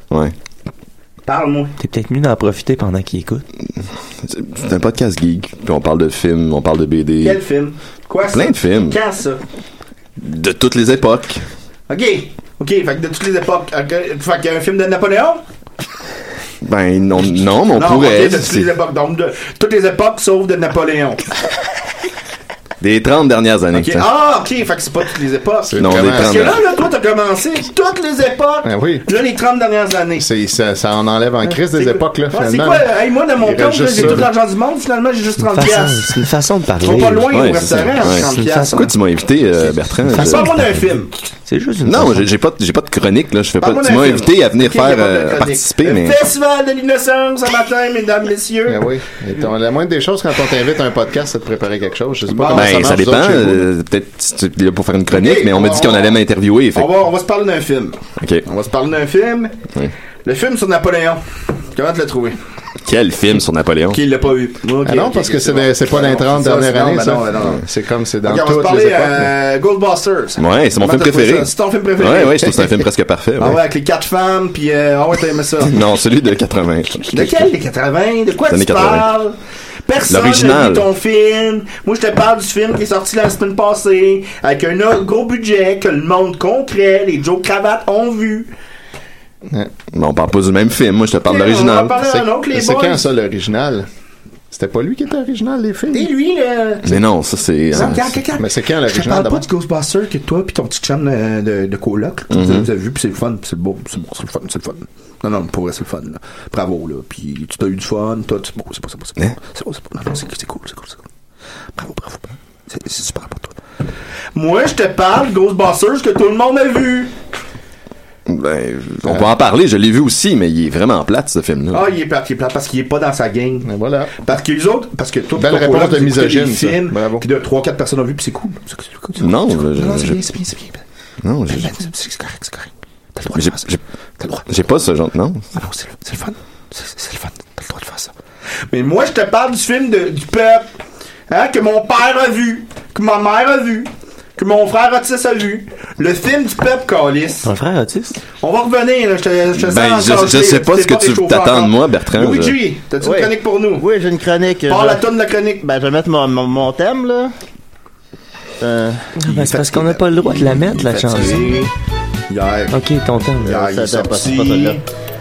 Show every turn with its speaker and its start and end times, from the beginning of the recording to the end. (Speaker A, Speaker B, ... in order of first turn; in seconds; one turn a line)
Speaker A: 1.3-1.7
Speaker B: 1.8-3.4
Speaker C: 3.8-7.4
Speaker A: 7.2-9.4
Speaker C: 8.3-9.0
Speaker C: 10.2-11.4
Speaker A: 11.9-15.4
Speaker C: 16.6-18.7
Speaker A: 17.7-21.2
Speaker C: 22.8-24.1
Speaker A: 23.7-30.3
Speaker D: 25.6-26.5
Speaker C: 25.8-26.6
Speaker D: 28.6-29.1
Speaker D: 30.2-34.3
Speaker A: 31.5-36.1
Speaker B: 35.4-37.4
Speaker A: 36.8-38.9
Speaker C: 37.3-40.7
Speaker B: 38.2-38.8
Speaker A: 40.1-41.1
Speaker B: 41.5-42.3
Speaker C: 41.8-46.2
Speaker A: 43.6-48.9
Speaker D: 48.7-53.7
Speaker A: 52.3-53.1
Speaker C: 52.4-56.9
Speaker A: 55.1-56.2
Speaker A: 56.7-59.6
Speaker A: 60.2-62.4
Speaker C: 62.8-64.0
Speaker A: 63.9-67.6
Speaker D: 64.8-69.3
Speaker A: 68.2-72.6
Speaker C: 70.4-73.6
Speaker A: 73.4-75.8
Speaker C: 75.6-77.5
Speaker A: 77.1-88.5
Speaker C: 78.5-79.0
Speaker C: 80.1-80.9
Speaker D: 89.5-89.8
Speaker C: 89.9-92.1
Speaker A: 91.2-93.0
Speaker D: 92.5-93.9
Speaker D: 94.5-96.1
Speaker A: 95.9-97.0
Speaker C: 96.8-98.1
Speaker A: 97.7-111.0
Speaker D: 98.4-99.5
Speaker C: 102.3-102.7
Speaker A: 111.8-113.5
Speaker A: 114.3-117.1
Speaker C: 118.3-121.8
Speaker A: 121.7-130.8
Speaker D: 123.6-124.1
Speaker D: 125.3-127.2
Speaker C: 129.2-130.2
Speaker C: 131.2-131.7
Speaker A: 131.5-134.5
Speaker C: 133.3-133.8
Speaker C: 134.5-135.6
Speaker A: 135.5-138.1
Speaker A: 138.7-140.7
Speaker A: 141.3-147.5
Speaker B: 147.4-148.2
Speaker A: 148.4-153.8
Speaker C: 149.6-152.6
Speaker E: 153.0-155.0
Speaker A: 154.7-155.6
Speaker E: 155.6-157.3
Speaker E: 158.6-159.1
Speaker B: 159.2-161.7
Speaker A: 159.2-161.7
Speaker A: 162.3-162.7
Speaker B: 162.7-163.6
Speaker A: 163.4-164.8
Speaker E: 163.5-164.8